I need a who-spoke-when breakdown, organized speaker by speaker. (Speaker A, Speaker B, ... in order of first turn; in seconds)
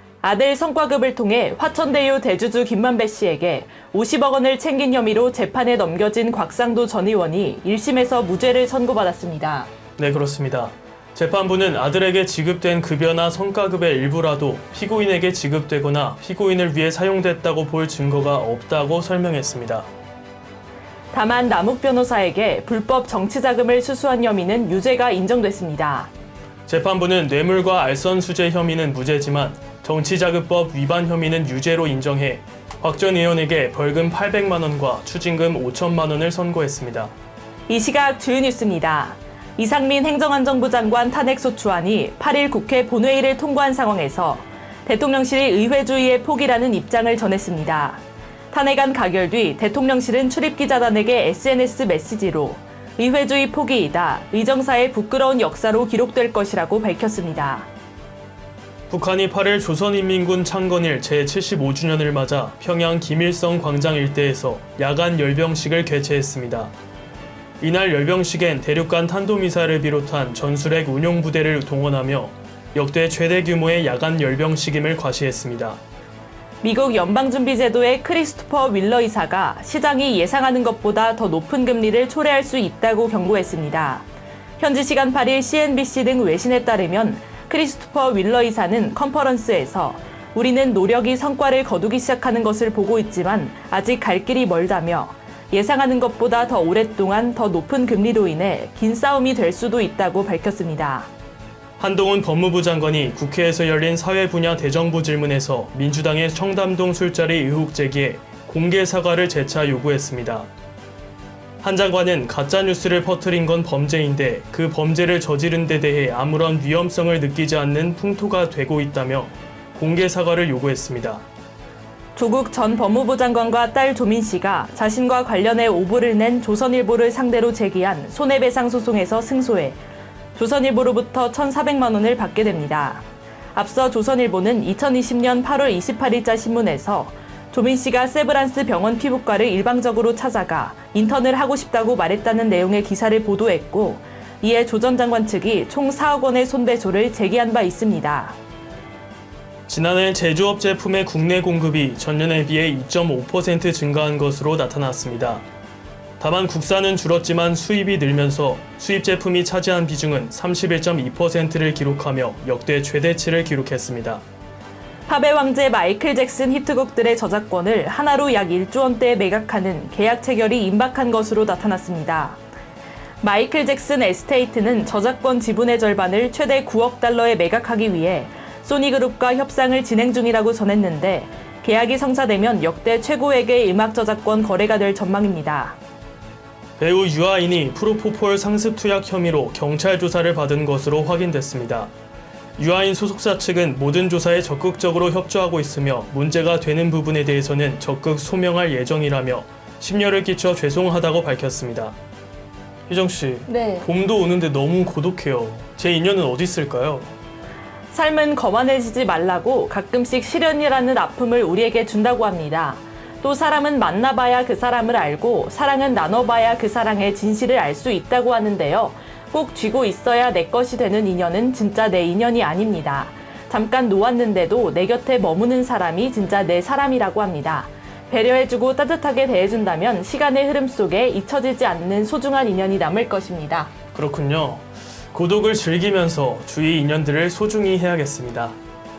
Speaker A: 0.2-9.7, 21.1-26.1, 37.7-48.0, 48.5-57.7, 76.6-84.1, 84.6-101.1, 122.2-129.8, 130.3-133.0, 133.6-148.4, 165.1-172.4, 173.2-185.8, 203.5-203.9, 207.9-233.7
Speaker B: 10.0-19.9, 26.7-37.1, 58.9-66.7, 67.6-75.8, 101.8-110.5, 111.6-121.2, 149.7-155.4, 156.2-164.2, 186.8-191.9, 192.6-202.0, 202.9-207.1, 233.9-238.6